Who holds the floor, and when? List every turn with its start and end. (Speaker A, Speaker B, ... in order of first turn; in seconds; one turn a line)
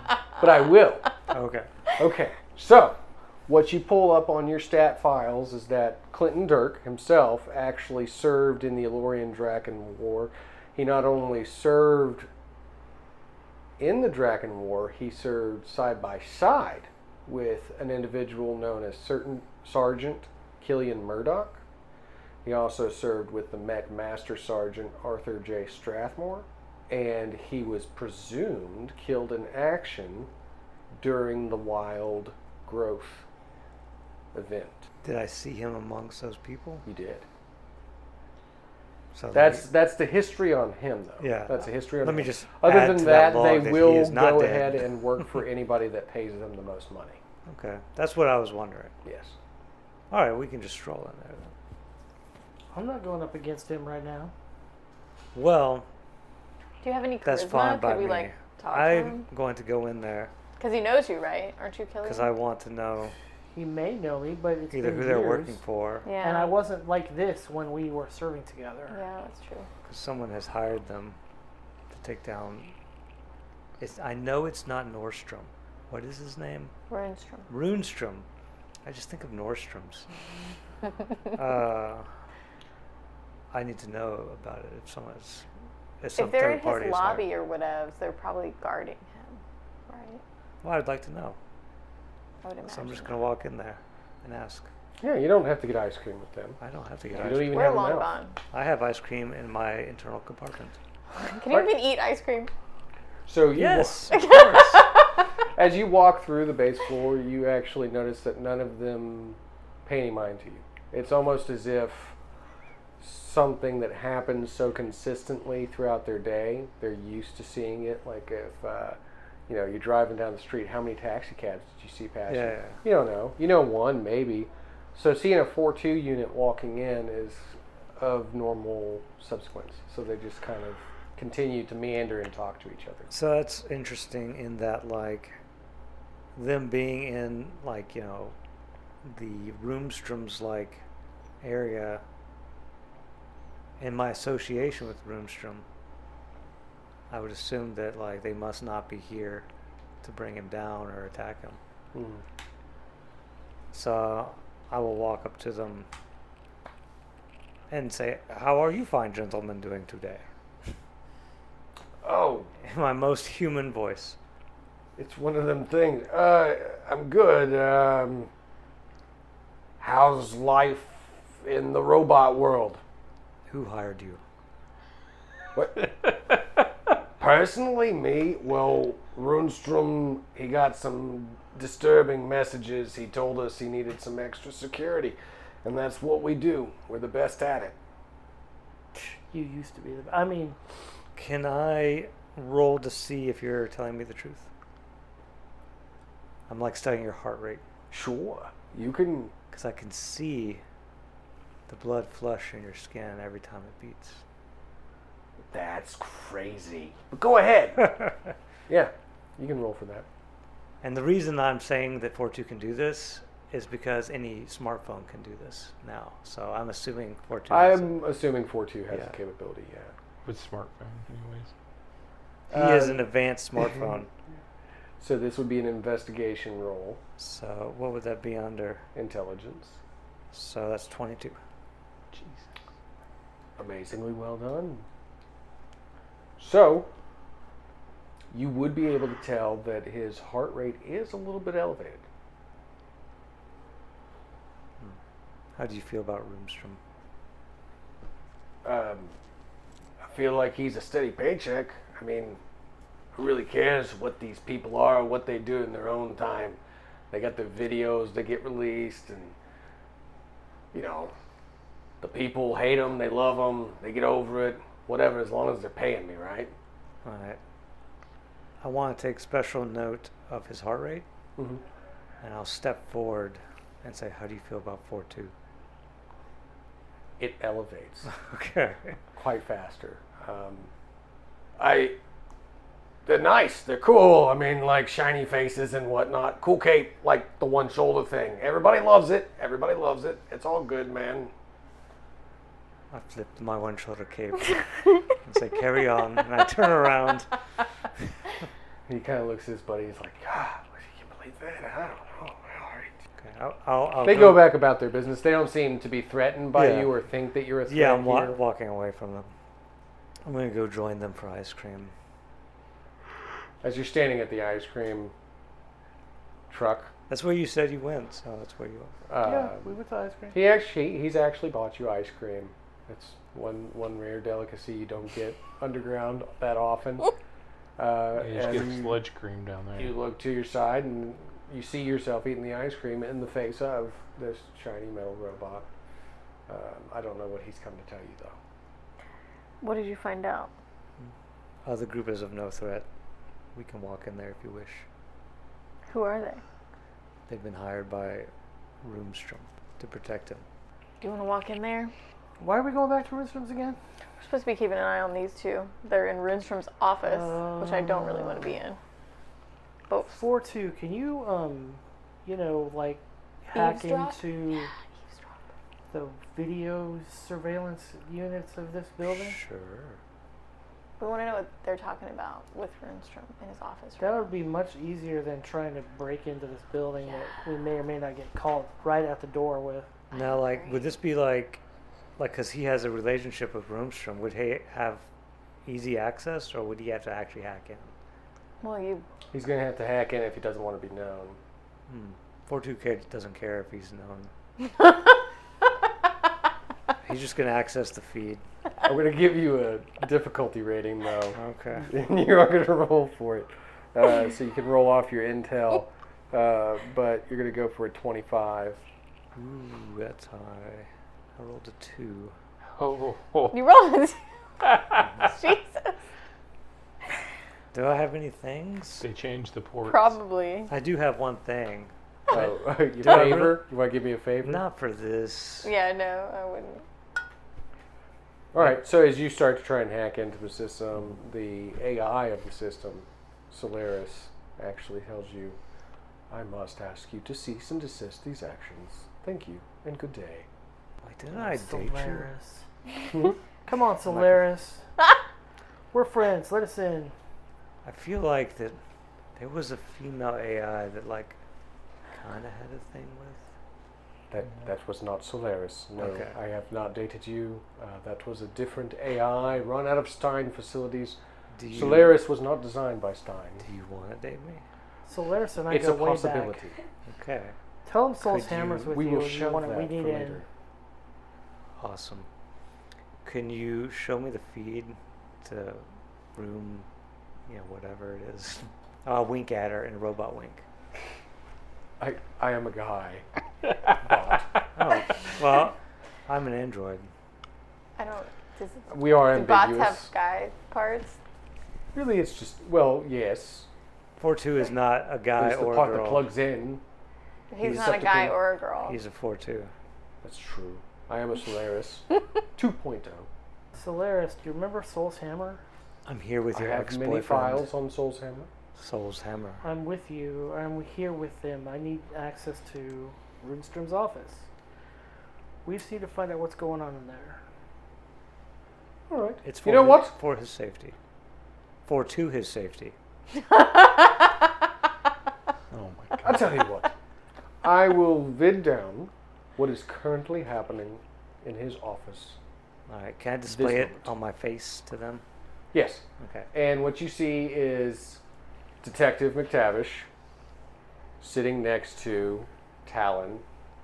Speaker A: 0.4-1.1
Speaker B: 1.3-1.7
Speaker A: 2.0-12.3
Speaker A: 13.8-21.6
Speaker A: 22.4-30.3
Speaker A: 30.9-33.3
Speaker A: 34.3-34.8
Speaker B: 35.0-36.9
Speaker A: 36.9-37.3
Speaker B: 39.1-39.7
Speaker A: 39.3-47.2
Speaker B: 41.2-45.3
Speaker B: 47.5-48.9
Speaker A: 49.0-49.4
Speaker B: 50.1-51.5
Speaker C: 52.7-54.3
Speaker B: 55.3-55.9
Speaker D: 56.8-59.2
Speaker B: 57.2-60.3
Speaker D: 60.6-62.3
Speaker B: 62.0-63.1
Speaker C: 63.5-65.6
Speaker B: 64.7-66.1
Speaker D: 66.0-66.6
Speaker C: 66.2-69.0
Speaker D: 68.9-69.7
Speaker B: 69.8-71.2
Speaker B: 71.9-72.7
Speaker B: 73.8-76.7
Speaker D: 76.9-77.5
Speaker B: 77.5-78.3
Speaker B: 78.8-80.5
Speaker B: 81.3-82.1
Speaker B: 83.5-85.5
Speaker B: 86.0-87.3
Speaker D: 86.2-90.2
Speaker B: 90.6-91.4
Speaker D: 92.4-93.2
Speaker B: 92.7-94.7
Speaker A: 95.0-96.6
Speaker B: 96.6-97.7
Speaker A: 97.1-98.1
Speaker D: 97.5-98.4
Speaker B: 98.5-100.8
Speaker D: 101.2-102.5
Speaker A: 103.3-104.9
Speaker B: 103.5-104.6
Speaker D: 104.1-105.0
Speaker A: 105.5-112.2
Speaker A: 113.0-133.1
Speaker B: 122.3-122.8
Speaker B: 133.1-135.4
Speaker B: 136.3-138.3
Speaker B: 139.0-140.8
Speaker B: 141.4-142.0
Speaker B: 143.8-145.7
Speaker B: 147.1-149.5
Speaker B: 150.0-151.6
Speaker A: 151.9-152.2
Speaker B: 153.7-155.9
Speaker B: 157.7-160.2
Speaker A: 162.0-162.5
Speaker B: 162.6-164.2
Speaker A: 165.0-168.3
Speaker A: 169.8-172.8
Speaker B: 173.5-174.2
Speaker A: 175.6-176.1
Speaker A: 177.2-187.8
Speaker C: 188.9-190.6
Speaker B: 191.2-194.5
Speaker B: 196.5-197.6
Speaker A: 197.9-199.3
Speaker B: 199.5-200.6
Speaker B: 201.7-204.2
Speaker A: 205.5-207.9
Speaker A: 208.7-210.1
Speaker B: 210.8-218.0
Speaker A: 217.5-219.9
Speaker E: 220.2-221.5
Speaker A: 222.5-223.1
Speaker B: 222.5-224.1
Speaker A: 225.0-227.0
Speaker B: 227.2-228.8
Speaker A: 228.9-229.8
Speaker B: 230.3-231.4
Speaker E: 232.1-232.5
Speaker A: 233.6-234.8
Speaker A: 236.4-236.9
Speaker A: 238.3-242.1
Speaker B: 245.6-246.8
Speaker A: 248.6-249.2
Speaker A: 250.0-252.4
Speaker A: 253.2-256.6
Speaker A: 257.1-259.4
Speaker A: 260.7-261.1
Speaker A: 262.0-266.5
Speaker B: 267.0-267.4
Speaker B: 268.6-271.1
Speaker A: 271.4-271.6
Speaker B: 272.2-275.3
Speaker A: 277.2-278.1
Speaker B: 278.1-279.0
Speaker A: 279.1-280.7
Speaker A: 281.6-282.0
Speaker A: 283.1-291.3
Speaker B: 292.9-297.3
Speaker A: 298.9-302.9
Speaker B: 303.2-304.6
Speaker A: 304.0-308.4
Speaker B: 306.5-307.0
Speaker B: 307.7-309.3
Speaker B: 310.2-311.9
Speaker A: 313.6-315.1
Speaker A: 316.5-316.9
Speaker B: 317.1-318.9
Speaker A: 319.1-319.6
Speaker C: 319.2-320.4
Speaker A: 320.3-327.1
Speaker A: 327.8-329.0
Speaker E: 328.2-329.9
Speaker A: 329.8-335.7
Speaker A: 336.5-338.4
Speaker D: 339.6-340.5
Speaker B: 341.6-342.9
Speaker B: 343.6-344.9
Speaker D: 345.9-346.4
Speaker B: 347.3-348.3
Speaker B: 348.8-350.4
Speaker D: 351.0-351.9
Speaker C: 352.4-353.8
Speaker D: 354.2-358.8
Speaker C: 357.0-358.6
Speaker D: 359.9-360.2
Speaker C: 360.1-364.7
Speaker D: 363.6-364.7
Speaker C: 365.9-369.4
Speaker B: 369.1-370.0
Speaker D: 371.0-374.3
Speaker C: 374.0-379.9
Speaker D: 380.1-381.0
Speaker B: 380.1-381.6
Speaker B: 382.2-385.1
Speaker B: 385.7-387.9
Speaker D: 388.6-389.1
Speaker A: 389.3-391.4
Speaker B: 391.9-394.3
Speaker B: 397.1-398.4
Speaker A: 398.8-408.8
Speaker B: 401.3-401.9
Speaker B: 409.4-412.4
Speaker E: 412.8-413.6
Speaker D: 413.5-414.2
Speaker E: 414.6-415.1
Speaker D: 415.0-415.9
Speaker B: 417.7-419.1
Speaker E: 419.0-420.2
Speaker D: 419.8-420.7
Speaker B: 420.7-423.7
Speaker A: 422.3-424.6
Speaker B: 424.4-425.7
Speaker D: 425.6-426.8
Speaker A: 428.5-435.6
Speaker A: 436.3-440.5
Speaker B: 441.0-442.3
Speaker C: 441.3-442.6
Speaker C: 443.6-444.8
Speaker B: 444.1-444.5
Speaker C: 445.9-447.1
Speaker B: 447.8-448.8
Speaker B: 449.4-451.4
Speaker B: 452.1-453.4
Speaker A: 454.3-461.2
Speaker B: 456.0-456.4
Speaker B: 461.5-462.2
Speaker A: 461.7-463.7
Speaker B: 463.6-464.6
Speaker C: 465.1-466.6
Speaker A: 465.7-466.8
Speaker B: 467.1-467.6
Speaker C: 467.9-470.4
Speaker B: 468.2-468.9
Speaker A: 468.7-470.5
Speaker B: 471.8-472.3
Speaker B: 473.2-476.9
Speaker B: 477.5-480.6
Speaker A: 482.0-483.2
Speaker A: 483.9-484.5
Speaker B: 484.8-485.8
Speaker B: 486.3-487.1
Speaker D: 488.0-491.2
Speaker A: 488.9-490.1
Speaker A: 491.9-493.7
Speaker B: 494.2-496.3
Speaker A: 495.4-496.8
Speaker D: 497.5-499.0
Speaker A: 497.6-498.3
Speaker B: 498.9-499.7
Speaker A: 500.2-503.3
Speaker C: 503.8-505.6
Speaker B: 506.1-507.7
Speaker A: 506.5-508.5
Speaker B: 508.8-509.6
Speaker C: 509.6-514.5
Speaker C: 515.6-517.4
Speaker A: 519.1-520.1
Speaker B: 519.4-521.0
Speaker B: 521.9-523.0
Speaker D: 523.4-524.3
Speaker E: 525.7-526.6
Speaker A: 526.2-526.9
Speaker A: 527.6-532.4
Speaker B: 532.9-535.2
Speaker A: 533.5-534.1
Speaker A: 535.7-538.2
Speaker B: 536.2-536.5
Speaker A: 538.8-540.1
Speaker A: 541.2-543.4